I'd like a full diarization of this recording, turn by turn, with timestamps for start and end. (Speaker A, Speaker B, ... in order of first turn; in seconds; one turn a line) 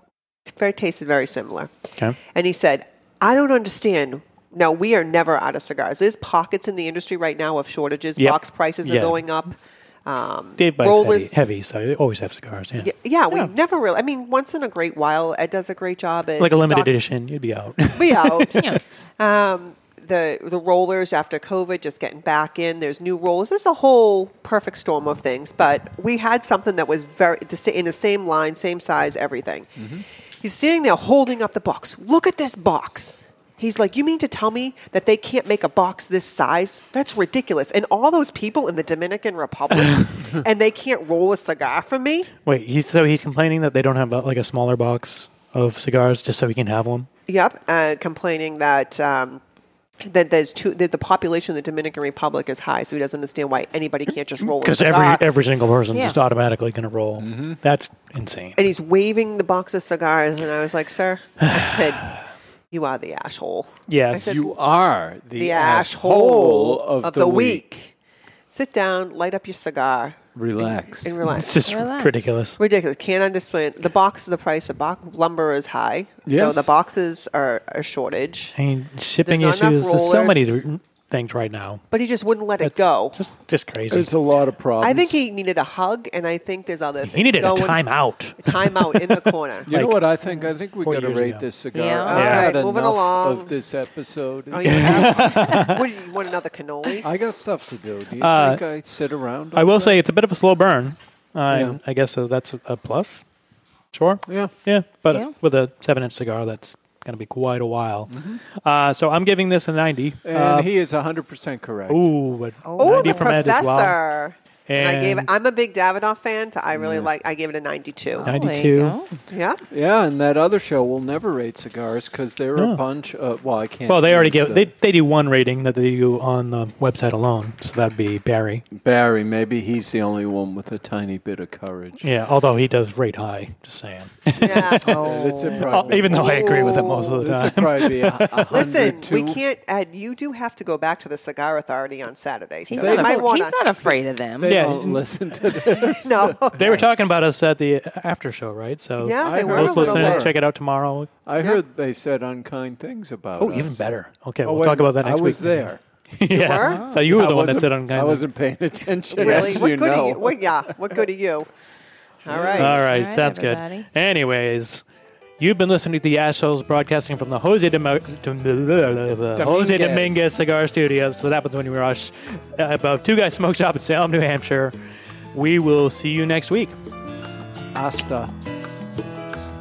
Speaker A: 0.5-1.7
Speaker A: 2.3-11.3
Speaker B: 8.2-9.2
Speaker B: 10.6-12.9
Speaker A: 12.8-16.9
Speaker B: 16.4-18.6
Speaker A: 17.9-29.7
Speaker C: 29.8-30.0
Speaker A: 30.4-42.3
Speaker B: 39.7-40.1
Speaker B: 42.5-47.1
Speaker A: 47.3-49.4
Speaker A: 50.0-55.2
Speaker B: 54.4-58.5
Speaker D: 55.9-56.2
Speaker C: 57.2-57.6
Speaker A: 58.6-64.5
Speaker B: 61.5-61.8
Speaker B: 63.9-64.4
Speaker C: 64.1-67.6
Speaker A: 65.3-67.9
Speaker A: 68.5-71.6
Speaker C: 70.3-71.2
Speaker B: 71.2-72.6
Speaker D: 71.6-72.1
Speaker A: 72.6-78.5
Speaker C: 76.2-76.7
Speaker B: 78.5-81.8
Speaker A: 79.2-80.4
Speaker A: 81.9-83.2
Speaker B: 82.6-84.1
Speaker C: 83.9-85.2
Speaker A: 84.8-87.8
Speaker B: 87.0-90.1
Speaker A: 88.4-89.7
Speaker C: 89.7-95.6
Speaker B: 90.8-91.5
Speaker D: 91.7-92.4
Speaker A: 92.1-93.5
Speaker B: 92.1-92.6
Speaker A: 94.5-97.1
Speaker B: 94.6-95.8
Speaker C: 97.0-100.0
Speaker B: 98.2-98.6
Speaker B: 99.5-103.2
Speaker C: 101.5-101.8
Speaker B: 103.9-110.7
Speaker C: 104.3-104.5
Speaker D: 105.1-105.3
Speaker C: 108.1-108.4
Speaker C: 110.2-112.1
Speaker B: 111.9-114.0
Speaker D: 112.6-113.4
Speaker A: 112.8-118.3
Speaker B: 114.7-115.3
Speaker C: 116.7-117.1
Speaker D: 118.2-119.1
Speaker B: 118.2-119.0
Speaker A: 119.3-119.6
Speaker C: 119.7-124.7
Speaker B: 123.9-128.6
Speaker C: 128.7-132.1
Speaker B: 132.0-134.8
Speaker A: 134.4-134.9
Speaker C: 134.4-139.4
Speaker D: 134.8-136.0
Speaker B: 135.6-138.7
Speaker A: 138.5-143.9
Speaker D: 142.7-144.6
Speaker C: 142.7-143.3
Speaker C: 144.4-146.8
Speaker B: 144.5-145.0
Speaker A: 145.9-146.8
Speaker B: 146.5-151.1
Speaker A: 149.0-150.3
Speaker C: 149.2-150.4
Speaker C: 151.2-153.8
Speaker B: 153.4-158.2
Speaker C: 154.4-155.8
Speaker A: 156.3-156.8
Speaker D: 156.6-157.1
Speaker C: 157.0-161.0
Speaker A: 159.1-161.5
Speaker B: 159.2-159.7
Speaker A: 162.2-162.8
Speaker C: 162.2-162.8
Speaker B: 162.6-164.8
Speaker D: 162.7-163.9
Speaker B: 165.4-174.7
Speaker C: 169.3-170.3
Speaker B: 175.3-176.8
Speaker C: 177.7-178.3